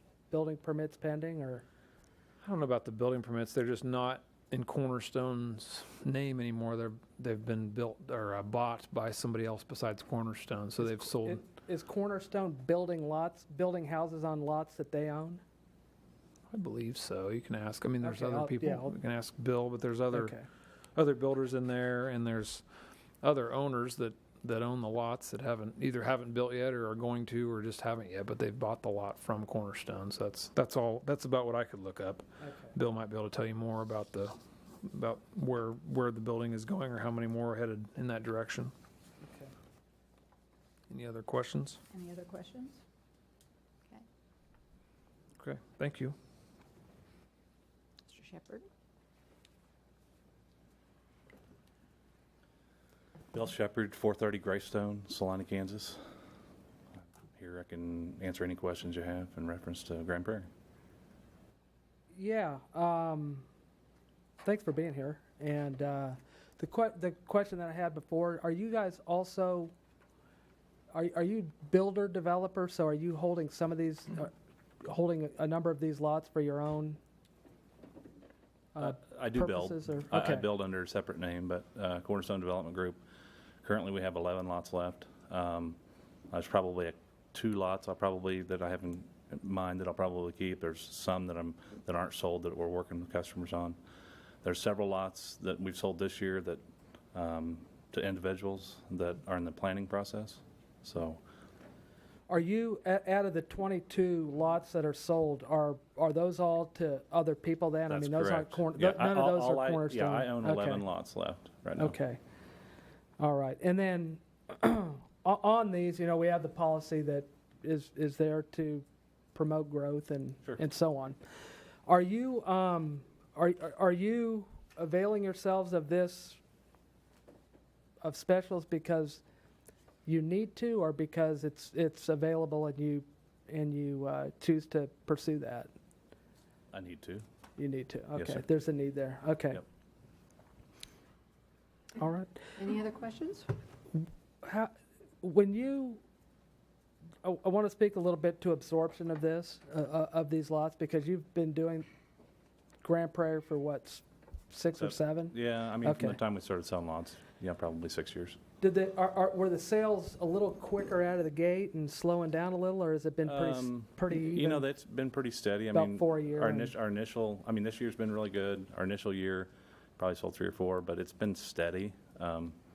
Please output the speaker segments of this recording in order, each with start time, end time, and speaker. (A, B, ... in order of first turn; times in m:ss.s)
0:00.3-0:01.6 A
0:02.4-0:11.4 B
0:10.8-0:15.4 A
0:16.5-0:20.4 B
0:18.0-0:18.9 A
0:20.1-0:20.4 A
0:20.9-0:22.6 B
0:23.2-0:38.7 B
0:32.4-0:32.7 A
0:39.2-0:39.5 A
0:40.9-0:41.8 B
0:41.9-0:42.8 C
0:45.4-0:46.2 B
0:48.0-0:48.7 C
0:53.3-0:56.0 D
0:57.3-1:00.5 D
1:02.1-1:03.4 A
1:04.4-1:09.7 A
1:10.9-1:17.0 A
1:18.7-1:20.5 A
1:18.8-1:23.0 D
1:23.6-1:25.8 D
1:26.3-1:33.8 D
1:34.4-1:36.6 D
1:37.1-1:41.2 D
1:42.3-1:50.8 A
1:47.9-1:52.0 D
1:51.8-1:52.2 A
1:53.2-2:01.2 A
2:01.8-2:06.4 A
2:08.0-2:09.2 A
2:10.0-2:15.7 A
2:16.7-2:17.2 D
2:17.6-2:19.6 A
2:18.2-2:18.4 D
2:22.0-2:22.5 A
2:22.6-2:23.5 C
2:24.4-2:26.0 A
2:27.2-2:31.9 A
2:32.8-2:36.2 A
2:34.8-2:38.4 D
2:38.6-2:44.6 A
2:43.2-2:52.6 D
2:45.7-2:46.7 A